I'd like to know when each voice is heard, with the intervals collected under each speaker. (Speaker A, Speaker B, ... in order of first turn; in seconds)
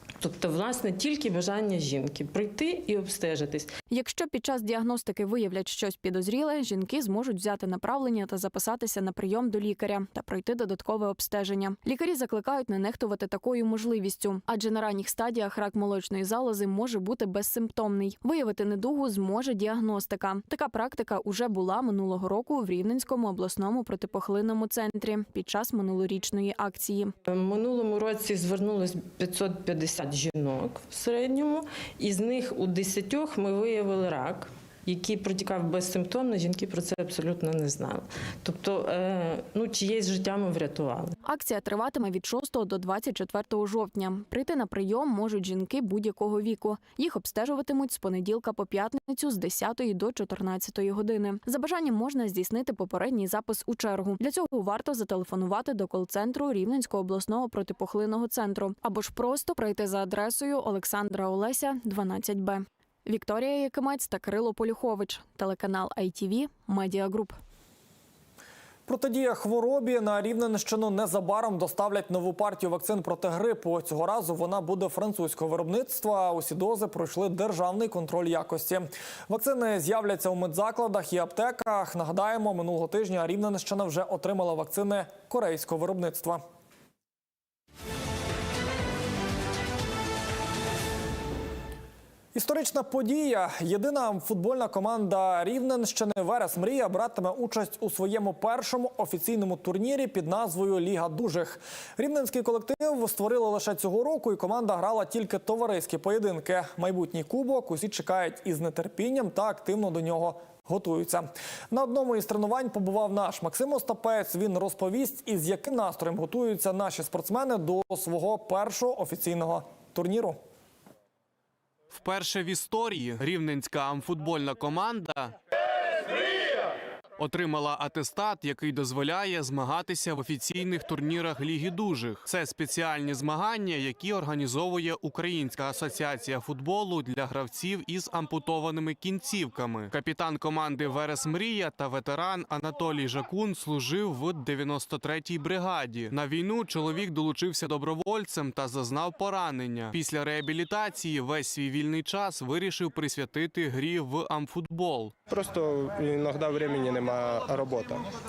Speaker A: 0.2-3.7, 27.3-41.1
Speaker B: 3.9-27.1, 41.2-67.4
Speaker C: 68.9-86.4, 92.3-120.4
Speaker D: 121.9-125.3, 127.2-155.1
Speaker E: 155.3-158.1